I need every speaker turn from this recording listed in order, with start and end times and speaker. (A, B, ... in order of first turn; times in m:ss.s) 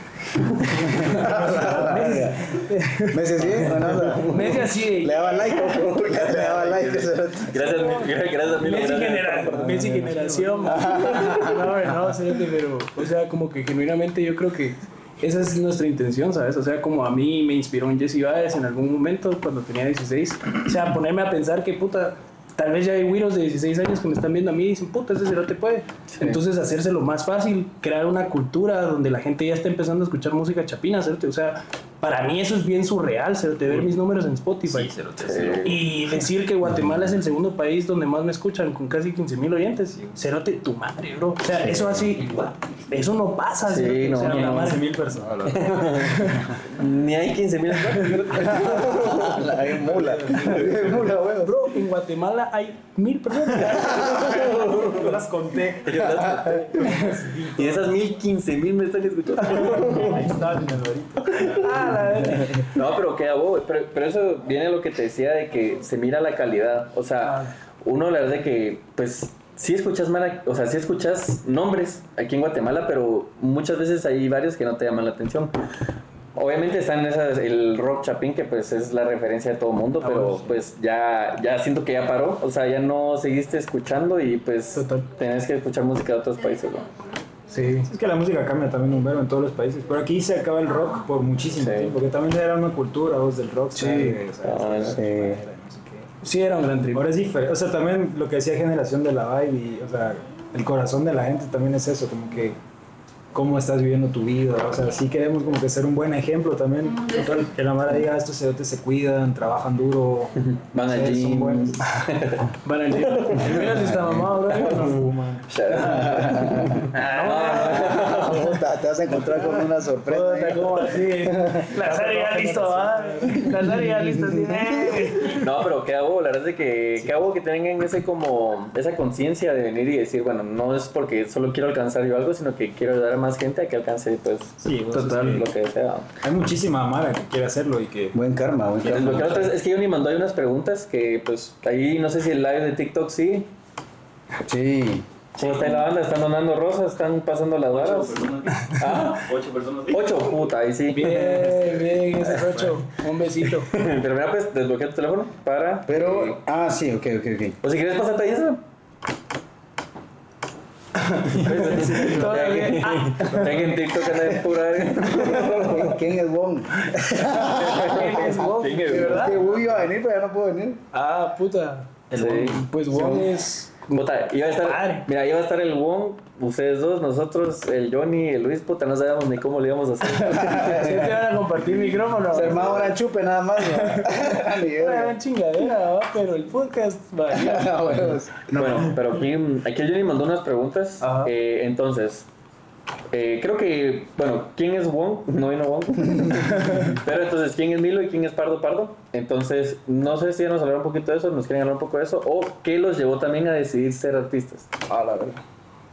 0:00.3-0:00.8 A
0:00.8-0:02.4 B
0:00.8-0:05.7 C
0:00.9-0:02.5 D
0:03.1-0:07.9 D
0:05.9-0:09.8 A
0:07.8-0:45.0 C
0:09.5-0:11.5 B
0:10.6-0:11.9 D
0:26.1-0:26.4 A
0:34.7-0:35.7 B
0:35.2-0:35.8 A
0:41.6-0:42.2 D
0:43.6-0:44.8 A
0:44.2-0:46.6 B
0:45.4-0:49.4 A
0:47.9-0:48.4 C
0:48.3-0:51.7 D
0:49.7-0:51.0 B
0:51.4-0:54.7 C
0:53.5-0:58.0 B
0:53.9-0:54.3 D
0:54.1-0:55.2 A
0:55.8-0:56.9 A
0:55.9-0:56.7 D
0:56.8-0:57.1 C
0:57.5-1:00.2 A
0:59.4-1:02.6 B
1:01.6-1:02.6 C
1:02.5-1:15.5 A
1:07.2-1:07.5 C
1:16.3-1:26.8 A
1:20.0-1:20.6 C
1:24.8-1:25.1 C
1:27.5-1:27.9 C
1:27.9-1:36.1 B
1:31.5-1:32.0 A
1:33.7-1:34.2 C
1:34.4-1:35.0 A
1:34.9-1:35.4 D
1:36.2-1:37.1 C
1:36.9-1:42.6 B
1:43.3-1:51.8 B
1:50.4-1:53.5 A
1:52.6-1:55.0 C
1:53.4-1:54.1 D
1:54.4-1:56.1 B
1:55.5-1:58.6 A
1:55.8-1:56.8 D
1:55.9-1:58.3 C
1:57.5-2:01.7 D
2:00.0-2:05.4 C
2:01.7-2:03.5 B
2:03.9-2:05.0 D
2:05.3-2:16.1 A
2:07.0-2:07.2 B
2:14.6-2:15.5 B
2:14.9-2:15.4 C
2:16.2-2:18.2 B
2:18.1-2:19.5 D
2:18.8-2:19.5 B
2:18.8-2:23.5 A
2:24.4-2:25.0 D
2:25.4-2:29.3 A
2:27.7-2:30.4 E
2:29.9-2:31.7 A
2:30.9-2:33.7 C
2:32.3-2:32.7 B
2:33.7-2:36.4 A
2:35.9-2:37.6 D
2:37.6-2:38.6 A
2:41.0-2:43.7 C
2:41.3-2:46.0 A
2:41.4-2:42.3 B
2:43.4-2:43.7 B
2:45.3-2:50.8 D
2:47.3-2:49.5 C
2:47.6-2:49.4 A
2:50.9-2:54.0 C
2:52.1-2:52.6 A
2:52.9-2:53.3 D
2:53.9-3:01.0 A
2:54.6-2:55.0 C
3:00.3-3:02.8 C
3:00.3-3:01.1 D
3:02.3-3:05.2 D
3:03.6-3:08.1 C
3:07.3-3:08.5 D
3:08.5-3:12.3 A
3:11.0-3:11.3 C
3:13.1-3:24.7 A
3:24.9-3:25.4 C